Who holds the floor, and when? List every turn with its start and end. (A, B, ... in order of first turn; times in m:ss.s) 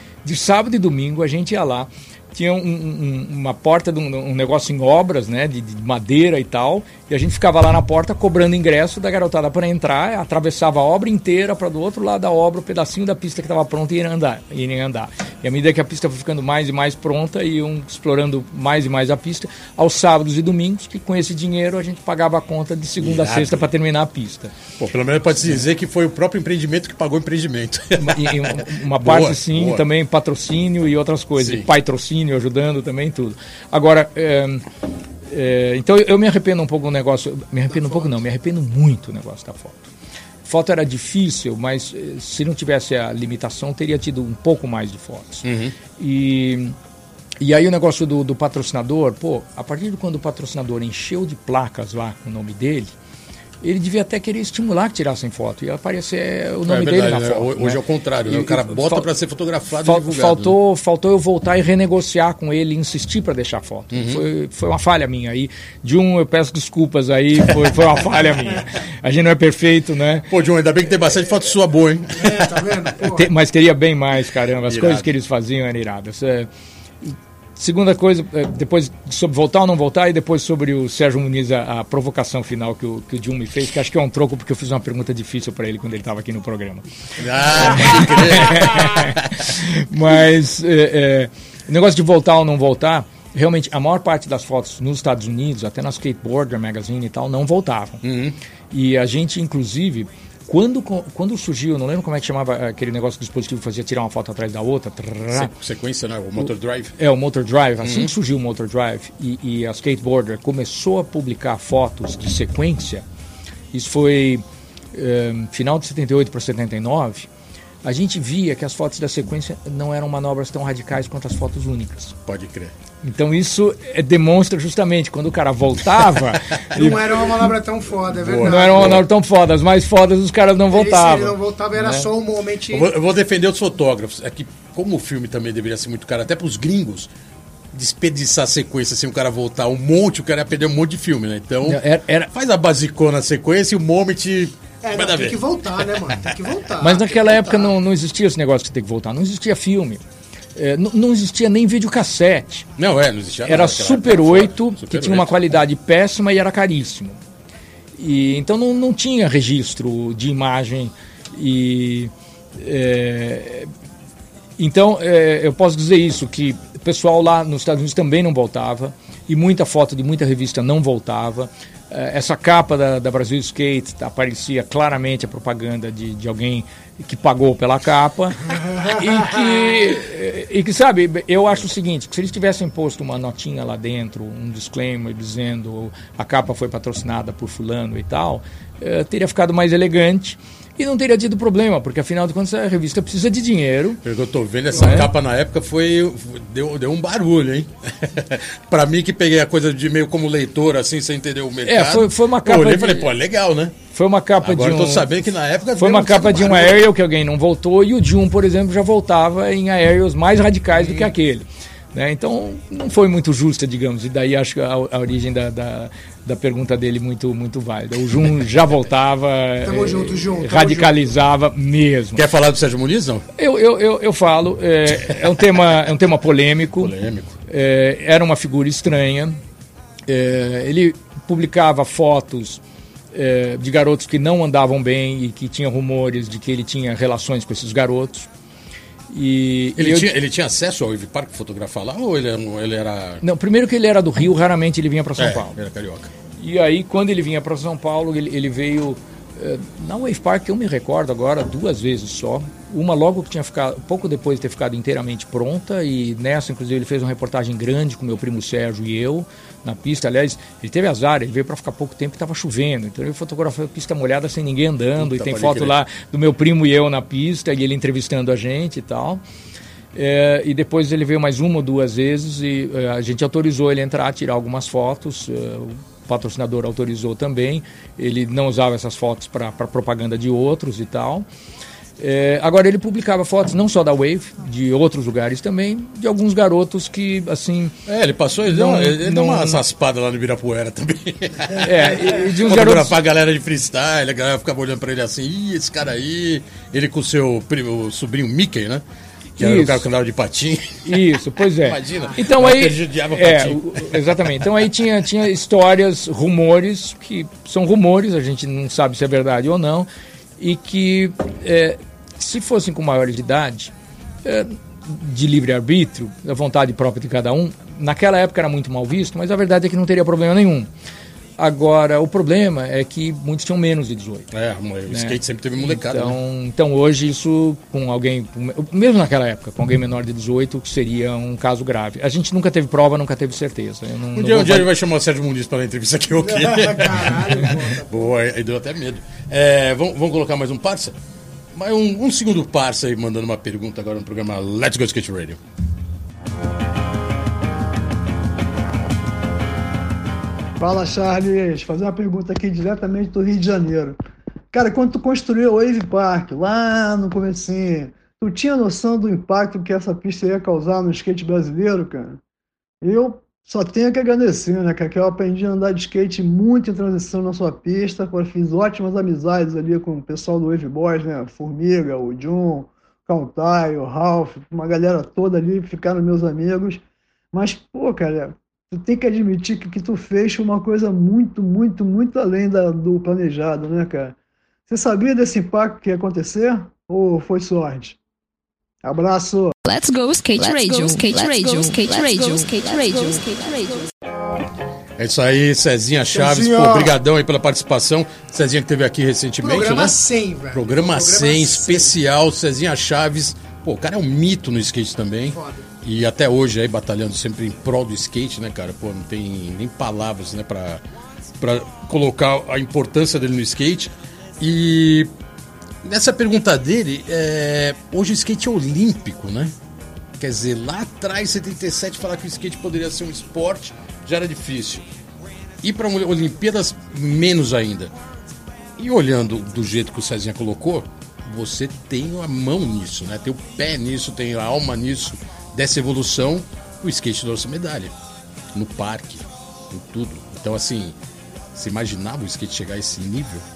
0:00.2-0:24.5 A
0:23.0-0:23.7 B
0:24.8-0:29.8 B
0:28.0-0:34.6 A
0:31.4-0:31.7 B
0:35.3-0:39.9 A
0:37.7-0:38.1 C
0:40.4-0:45.4 A
0:45.4-0:45.7 B
0:46.0-0:46.8 A
0:47.4-0:52.9 A
0:53.6-0:59.1 A
0:56.6-1:00.5 B
0:59.7-1:10.3 A
1:03.9-1:04.2 B
1:10.3-1:12.5 B
1:12.2-1:13.3 C
1:13.1-1:16.5 A
1:14.7-1:15.1 B
1:17.0-1:26.8 A
1:27.2-1:29.4 B
1:27.5-1:38.0 A
1:38.0-1:38.4 B
1:38.7-1:45.5 A
1:45.3-1:46.9 B
1:46.4-1:53.0 A
1:47.8-1:48.1 B
1:53.7-1:57.3 A
1:57.8-2:02.2 A
2:02.2-2:02.7 B
2:03.0-2:07.0 A
2:06.5-2:06.9 B
2:06.7-2:09.0 C
2:08.1-2:09.0 B
2:08.4-2:12.1 A
2:10.7-2:12.9 C
2:12.7-2:17.1 B
2:17.7-2:26.3 B
2:21.6-2:22.3 A
2:24.8-2:27.7 C
2:26.8-2:30.0 A
2:30.6-2:32.6 A
2:32.8-2:35.4 B
2:33.4-2:37.2 A
2:38.0-2:43.7 A
2:44.6-3:14.0 A
3:14.0-3:23.8 B
3:14.7-3:15.1 A
3:21.6-3:23.1 A
3:23.9-3:25.1 A
3:24.4-3:26.9 B
3:25.8-3:42.2 A
3:30.8-3:31.1 B
3:39.6-3:41.0 C
3:42.1-3:43.2 B
3:43.4-3:46.9 A
3:46.8-3:47.4 B
3:47.5-3:49.4 A
3:50.1-3:52.6 A
3:53.1-3:58.3 A
3:59.1-4:00.1 A
3:59.8-4:03.2 B
4:03.2-4:05.6 A
4:05.2-4:06.1 B
4:06.4-4:29.2 A
4:25.0-4:25.8 B
4:29.9-4:41.2 A
4:42.0-4:47.7 A
4:47.8-4:58.8 B
4:48.5-4:49.6 A
4:51.6-4:53.0 A
4:59.4-5:04.3 B
4:59.4-4:59.9 A
5:00.8-5:09.9 A
5:10.4-5:13.7 A
5:14.2-5:20.7 A
5:21.4-5:24.3 A
5:24.3-5:26.2 B
5:24.9-5:34.7 A
5:34.1-5:41.0 B
5:36.2-5:38.1 C
5:41.5-5:45.4 B
5:50.6-5:54.0 D
5:54.5-6:02.2 D
6:02.8-6:24.2 D
6:24.7-6:28.0 D
6:28.8-6:29.5 D
6:29.6-6:33.9 E
6:35.0-6:40.0 B
6:36.2-6:36.9 D
6:39.4-6:42.0 C
6:40.5-6:50.8 B
6:45.3-6:45.6 C
6:51.4-6:55.1 B
6:55.8-6:59.5 B
7:00.2-7:04.9 B
7:05.6-7:07.9 B
7:08.8-7:17.9 B
7:18.5-7:21.0 B
7:21.5-7:23.4 B